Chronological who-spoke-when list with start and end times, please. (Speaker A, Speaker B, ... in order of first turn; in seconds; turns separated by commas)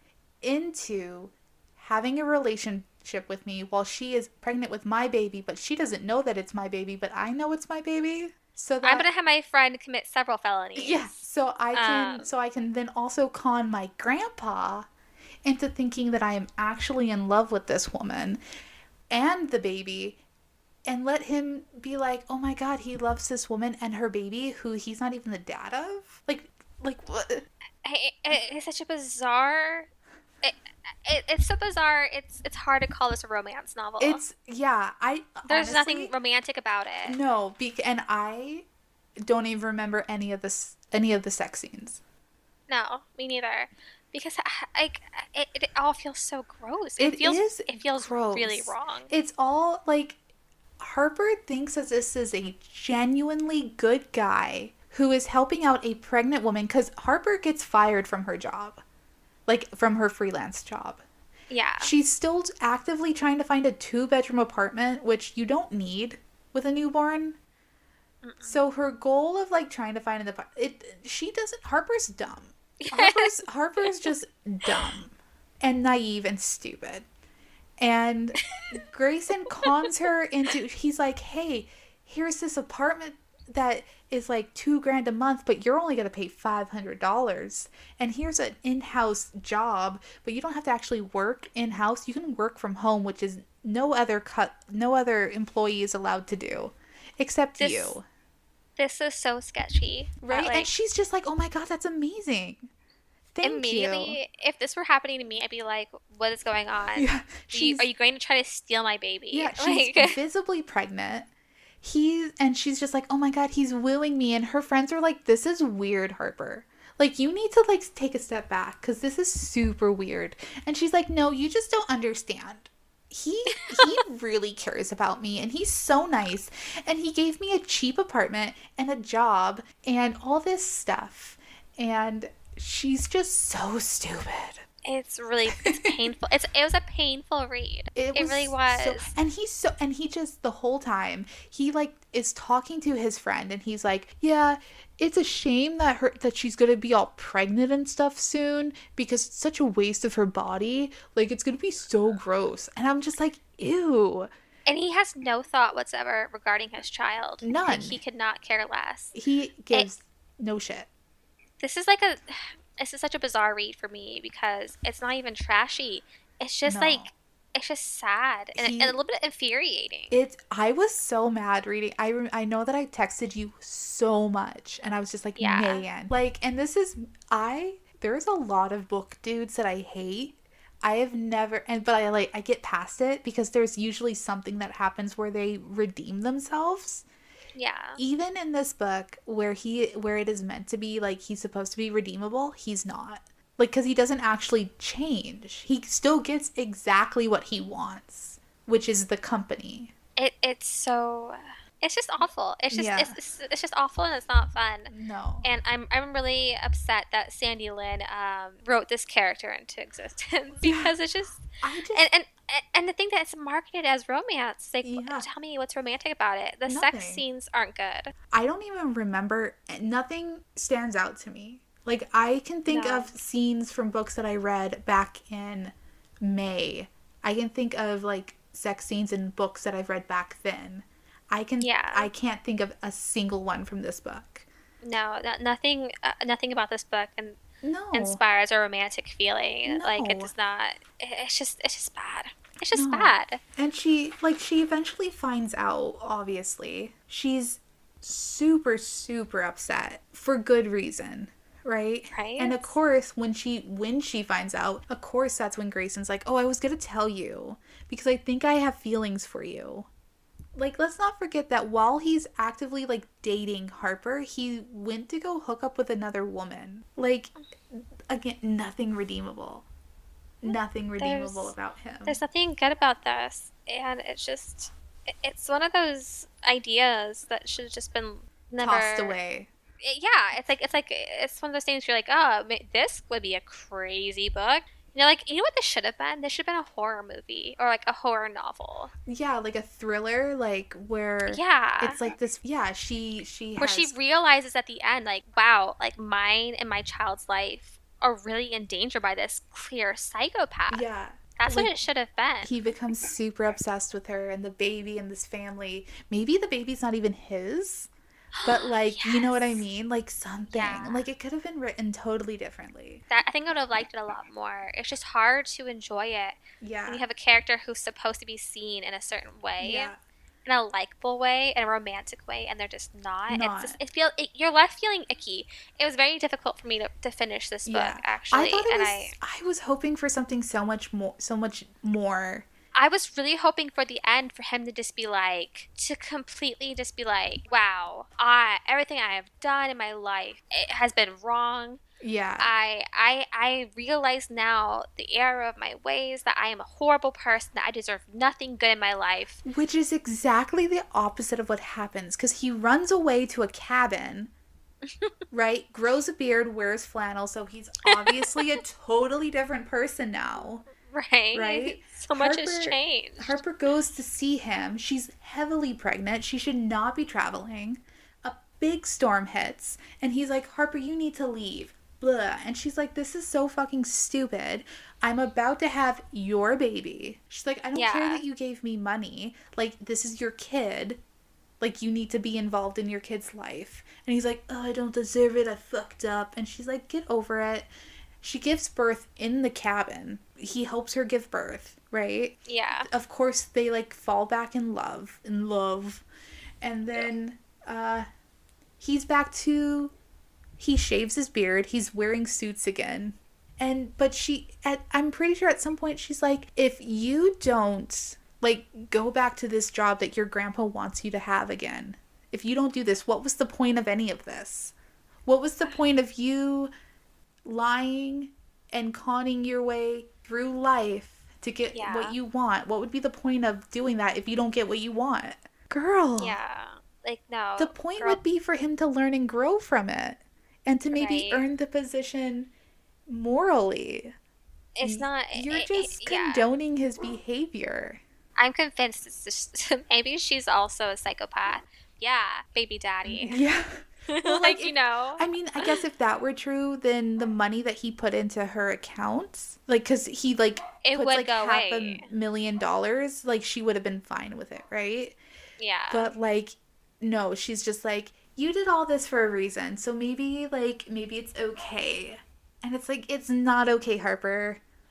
Speaker A: 0.4-9.1, Speaker B: 8.8-11.1, Speaker A: 10.8-14.9, Speaker B: 11.7-12.3, Speaker A: 15.4-18.4, Speaker A: 19.1-20.2, Speaker A: 20.9-27.4, Speaker B: 27.8-29.9, Speaker B: 30.4-34.2, Speaker A: 34.0-36.1, Speaker B: 35.5-37.2, Speaker A: 37.0-38.6, Speaker A: 39.2-42.0, Speaker B: 42.7-49.1, Speaker A: 47.0-50.2, Speaker A: 50.8-58.8, Speaker A: 59.5-61.0, Speaker B: 61.5-61.9, Speaker A: 61.8-67.4, Speaker B: 68.2-68.6, Speaker A: 68.4-77.0, Speaker B: 72.8-74.1, Speaker B: 74.7-74.9, Speaker A: 77.8-98.0, Speaker B: 97.6-98.0, Speaker B: 98.8-100.7, Speaker A: 100.2-102.7, Speaker A: 103.3-104.2, Speaker B: 103.4-110.2, Speaker A: 107.0-107.9, Speaker A: 109.3-111.3, Speaker A: 111.8-134.6, Speaker B: 123.6-124.0, Speaker B: 134.8-139.1, Speaker A: 135.5-135.9, Speaker A: 137.9-154.3, Speaker B: 154.7-159.2, Speaker A: 157.4-158.0, Speaker A: 159.1-160.9, Speaker B: 161.6-170.2, Speaker A: 166.7-167.1, Speaker A: 168.5-169.0, Speaker A: 170.1-187.0, Speaker B: 175.4-175.9, Speaker B: 187.5-188.0, Speaker A: 188.0-199.9, Speaker B: 200.2-204.9, Speaker A: 202.7-203.2, Speaker A: 204.9-205.5, Speaker B: 205.4-218.1, Speaker A: 210.6-210.9, Speaker A: 211.6-212.1, Speaker A: 214.8-215.3, Speaker A: 216.7-217.2, Speaker A: 218.3-234.5, Speaker B: 222.7-223.1, Speaker B: 231.6-232.1, Speaker B: 234.8-237.4, Speaker A: 237.6-238.2, Speaker B: 237.9-243.4, Speaker A: 239.7-240.3, Speaker A: 242.7-259.9, Speaker B: 252.1-252.8, Speaker A: 260.6-267.3, Speaker A: 268.1-269.6, Speaker A: 270.4-272.2, Speaker B: 270.4-279.1, Speaker A: 278.6-279.5, Speaker B: 279.8-288.9, Speaker A: 289.1-293.9, Speaker B: 291.3-292.0, Speaker B: 293.6-302.5, Speaker A: 300.7-301.7, Speaker A: 302.4-307.9, Speaker B: 308.3-309.6, Speaker A: 308.4-313.0, Speaker B: 310.5-311.1, Speaker B: 313.1-319.9, Speaker A: 316.6-317.0, Speaker A: 319.6-320.0, Speaker B: 320.4-329.1, Speaker A: 323.3-323.8, Speaker A: 327.6-332.4, Speaker B: 332.8-341.8, Speaker A: 342.0-342.5, Speaker B: 342.4-349.4, Speaker A: 349.4-354.3, Speaker B: 354.9-355.1, Speaker A: 355.3-360.6, Speaker B: 357.9-358.6, Speaker B: 360.9-363.4, Speaker A: 361.3-381.0, Speaker B: 377.7-378.2, Speaker A: 381.6-387.7, Speaker A: 388.2-396.0, Speaker B: 392.4-392.9, Speaker A: 396.6-398.1, Speaker A: 398.8-399.9, Speaker A: 400.6-414.7, Speaker A: 415.2-416.7, Speaker A: 417.4-426.4, Speaker B: 421.7-422.1, Speaker B: 426.2-428.2, Speaker A: 427.6-432.5, Speaker B: 430.9-431.5, Speaker A: 433.1-434.1, Speaker B: 434.8-436.5, Speaker A: 434.8-438.0, Speaker B: 438.4-443.4, Speaker A: 443.0-455.2, Speaker B: 444.1-445.8, Speaker B: 450.8-452.1, Speaker B: 455.6-456.1, Speaker A: 455.9-464.6